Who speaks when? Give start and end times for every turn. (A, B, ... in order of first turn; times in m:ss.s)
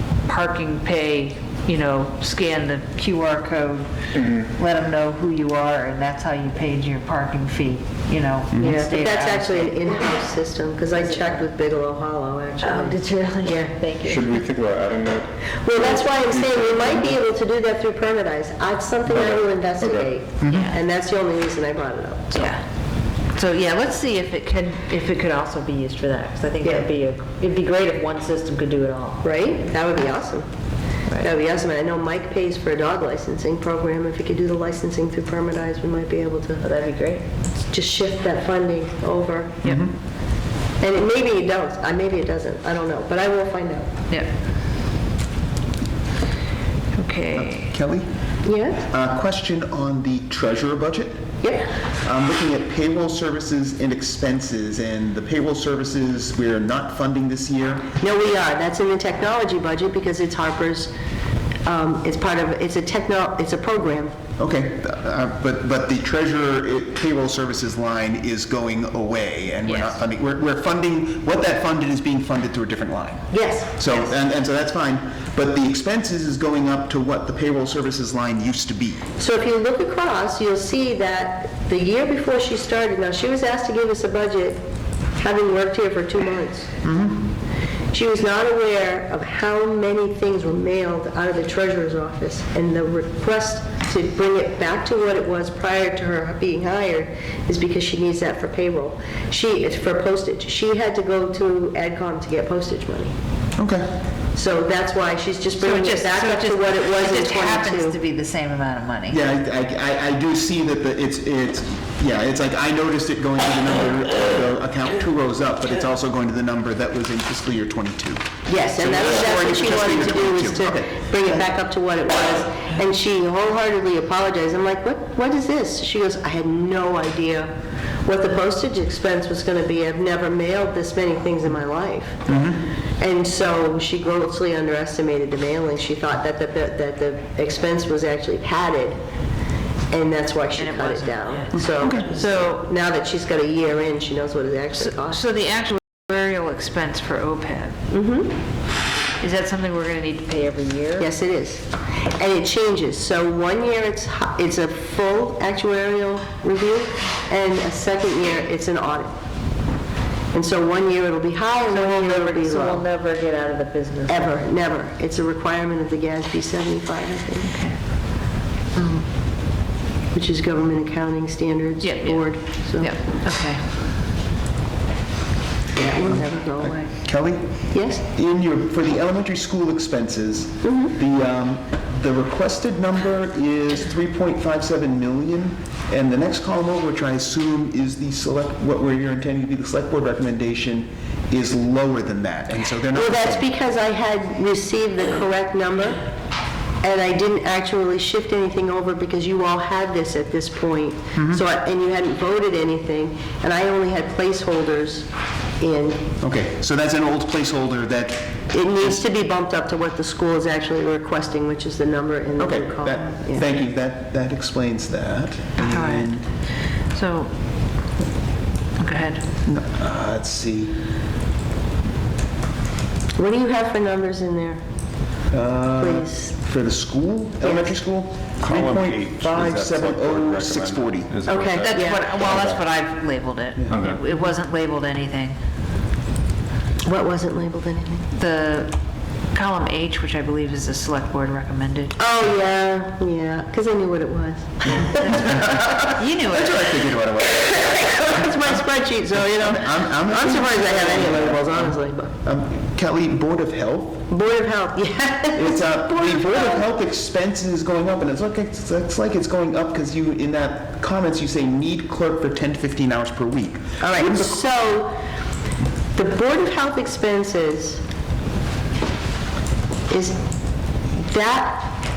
0:00.3-0:09.8 A
0:04.1-0:04.5 B
0:08.5-0:08.8 C
0:08.6-0:13.0 D
0:12.6-0:14.4 A
0:14.0-0:17.2 B
0:15.6-0:22.5 D
0:19.1-0:20.1 B
0:20.4-0:20.7 C
0:20.5-0:20.8 A
0:22.3-0:22.6 A
0:23.3-0:29.2 A
0:29.2-0:30.4 D
0:31.2-0:36.6 D
0:36.6-0:37.2 A
0:37.7-0:39.6 D
0:39.6-0:39.9 C
0:40.8-0:43.9 D
0:47.0-0:47.7 A
0:47.4-0:48.1 C
0:48.4-0:48.8 D
0:48.8-0:51.3 C
0:51.4-0:51.7 D
0:52.0-0:57.9 C
0:58.0-1:00.9 D
1:01.6-1:04.2 D
1:04.4-1:19.0 C
1:09.7-1:10.0 A
1:13.3-1:13.8 D
1:19.2-1:24.6 D
1:25.2-1:26.7 D
1:26.8-1:27.2 C
1:27.9-1:43.1 D
1:43.6-1:43.9 C
1:44.4-1:48.0 D
1:45.6-1:49.2 A
1:49.1-2:01.4 C
1:58.5-2:07.5 D
2:08.1-2:12.3 D
2:12.3-2:12.6 C
2:13.0-2:19.0 D
2:19.9-2:25.2 D
2:20.6-2:22.7 A
2:21.6-2:22.1 C
2:24.8-2:27.8 A
2:27.9-2:28.3 D
2:29.2-2:31.1 A
2:31.0-2:39.2 D
2:40.3-2:42.8 D
2:41.7-2:44.3 A
2:44.1-2:47.5 D
2:47.4-2:47.8 A
2:48.8-2:49.0 D
2:50.1-2:52.9 D
2:51.8-2:53.6 A
2:55.8-2:56.9 D
2:56.1-3:13.4 C
2:57.7-2:58.0 D
3:00.6-3:01.0 D
3:12.9-3:16.0 D
3:16.8-3:25.1 D
3:21.2-3:21.4 C
3:25.6-3:26.1 D
3:26.2-3:28.9 C
3:28.5-3:33.5 D
3:32.4-3:36.2 C
3:35.6-3:36.3 A
3:36.9-3:37.3 A
3:38.8-3:39.2 A
3:39.5-3:40.8 C
3:43.2-3:44.6 D
3:45.3-3:51.3 C
3:45.8-3:46.3 D
3:47.4-3:47.7 D
3:48.4-3:52.6 B
3:51.3-3:52.1 D
3:51.6-3:55.4 A
3:53.7-3:54.0 B
3:56.8-3:58.1 D
3:58.1-3:58.8 A
3:59.3-4:02.0 A
4:02.0-4:05.7 D
4:04.9-4:08.5 C
4:05.1-4:07.0 A
4:07.3-4:12.1 D
4:09.1-4:14.1 C
4:14.1-4:16.7 D
4:15.4-4:24.4 C
4:23.8-4:25.0 D
4:26.0-4:27.8 D
4:29.9-4:30.2 D
4:31.0-4:31.7 D